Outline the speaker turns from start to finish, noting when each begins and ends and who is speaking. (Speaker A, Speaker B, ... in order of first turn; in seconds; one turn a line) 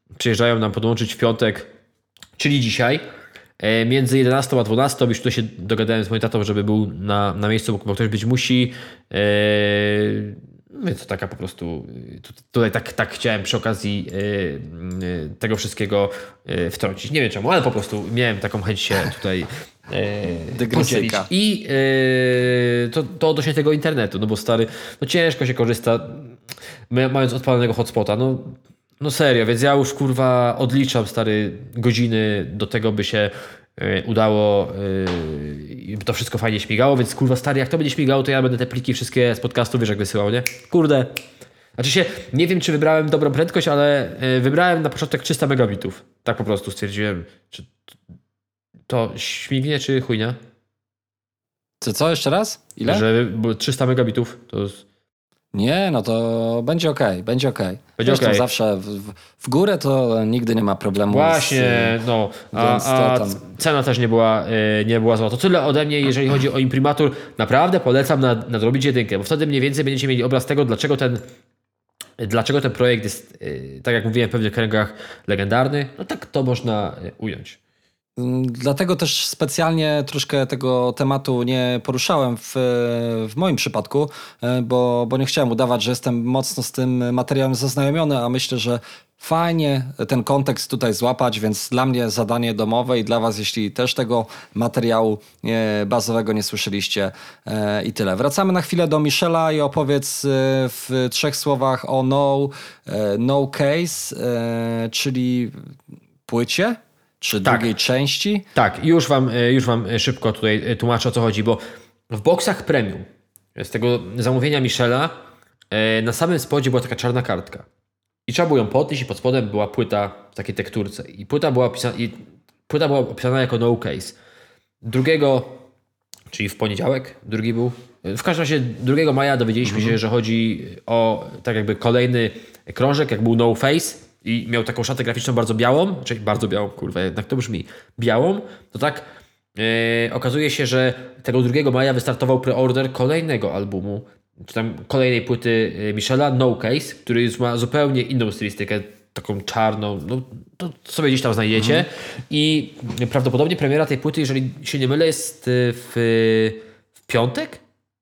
Speaker A: 0.2-1.7
Speaker A: 2.4-3.0
Speaker A: 3.6-26.4
Speaker B: 20.5-21.3
Speaker A: 26.9-41.1
Speaker A: 41.8-47.8
Speaker A: 48.9-50.4
Speaker B: 51.8-53.0
Speaker A: 52.8-54.8
Speaker B: 55.5-61.9
Speaker A: 58.0-58.5
Speaker A: 61.1-71.2
Speaker B: 62.5-63.4
Speaker A: 72.2-77.6
Speaker B: 78.2-105.5
Speaker B: 106.3-108.5
Speaker A: 108.5-113.0
Speaker A: 113.5-115.1
Speaker A: 115.7-117.7
Speaker A: 118.3-124.2
Speaker A: 124.8-125.6
Speaker A: 126.3-139.0
Speaker B: 129.7-129.9
Speaker A: 139.6-157.6
Speaker B: 151.6-151.8